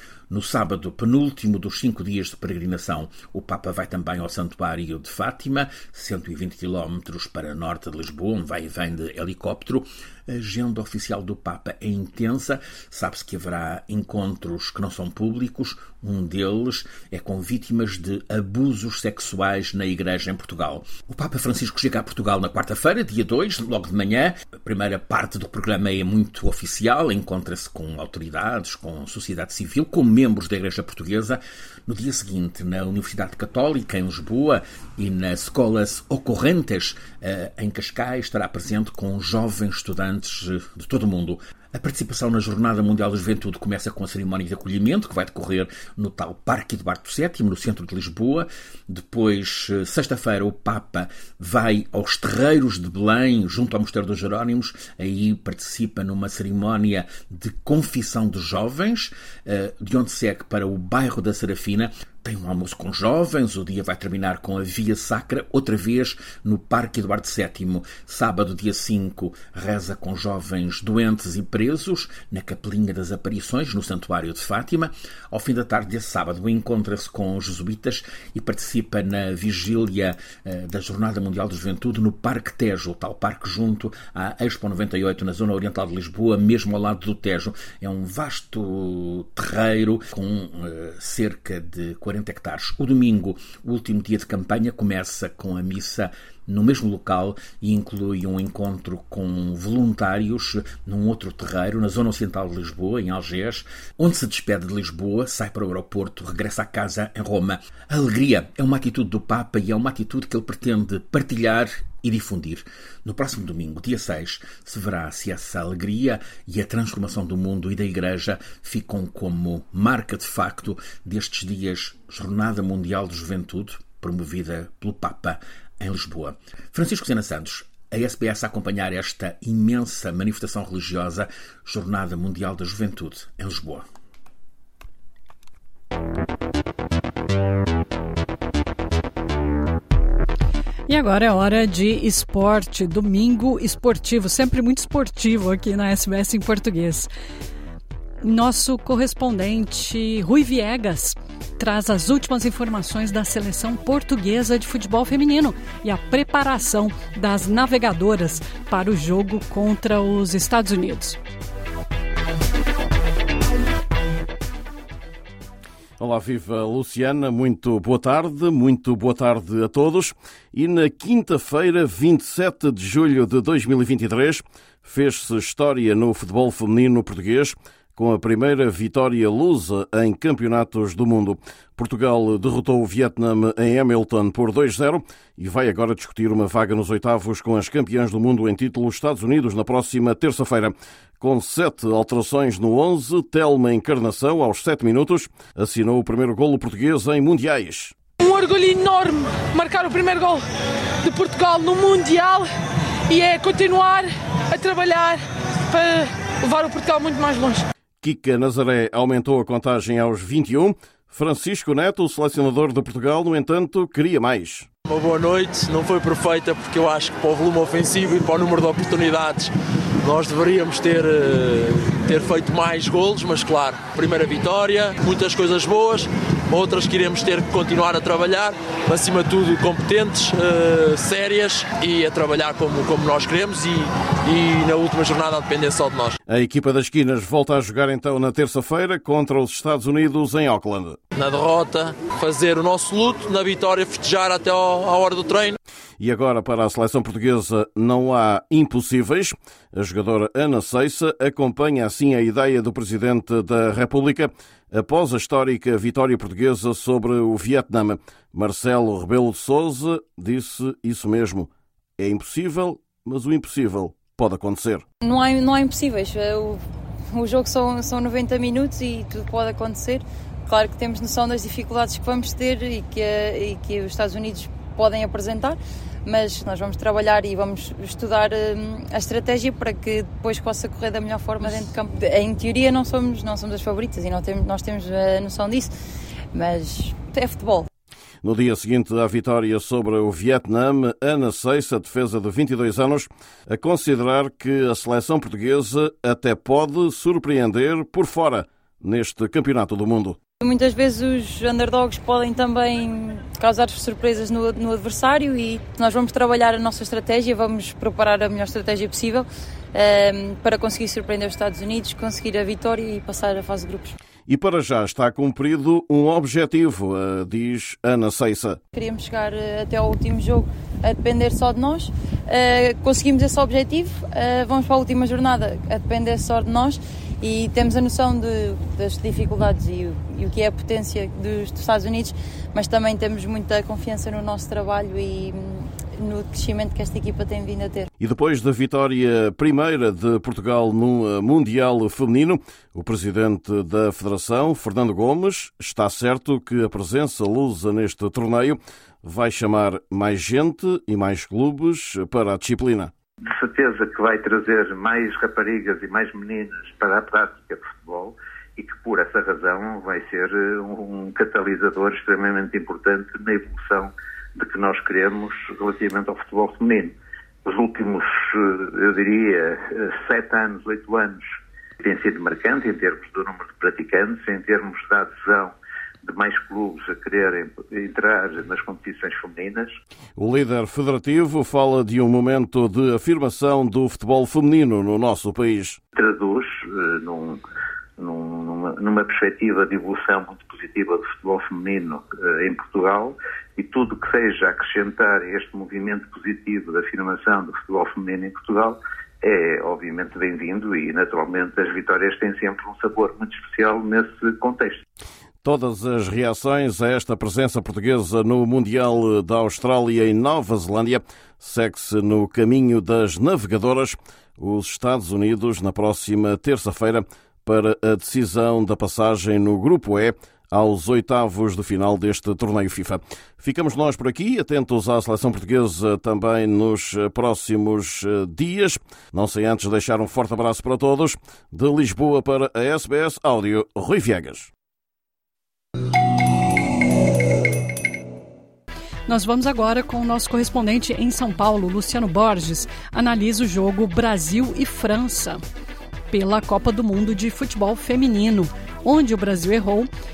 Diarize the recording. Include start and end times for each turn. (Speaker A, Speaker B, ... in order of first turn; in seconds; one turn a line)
Speaker A: 0.3-133.8
Speaker B: 140.9-147.1
Speaker B: 148.2-161.2
Speaker C: 166.0-197.9
Speaker D: 198.2-200.4
Speaker D: 201.0-202.5
Speaker D: 203.1-207.6
Speaker C: 208.0-214.7
Speaker E: 214.9-236.2
Speaker C: 236.3-241.0
Speaker E: 241.1-245.6
Speaker C: 246.0-264.8
Speaker F: 265.0-266.6
Speaker F: 267.1-285.7
Speaker F: 286.3-287.7
Speaker C: 288.2-300.2
Speaker F: 300.4-313.9
Speaker C: 314.3-318.6
Speaker F: 318.7-337.9
Speaker C: 338.0-352.9
Speaker G: 353.3-371.2
Speaker G: 371.8-379.7
Speaker C: 380.1-385.8
Speaker G: 385.9-387.4
Speaker G: 388.0-404.8
Speaker C: 405.4-434.5
Speaker B: 439.1-445.4
Speaker B: 446.1-449.9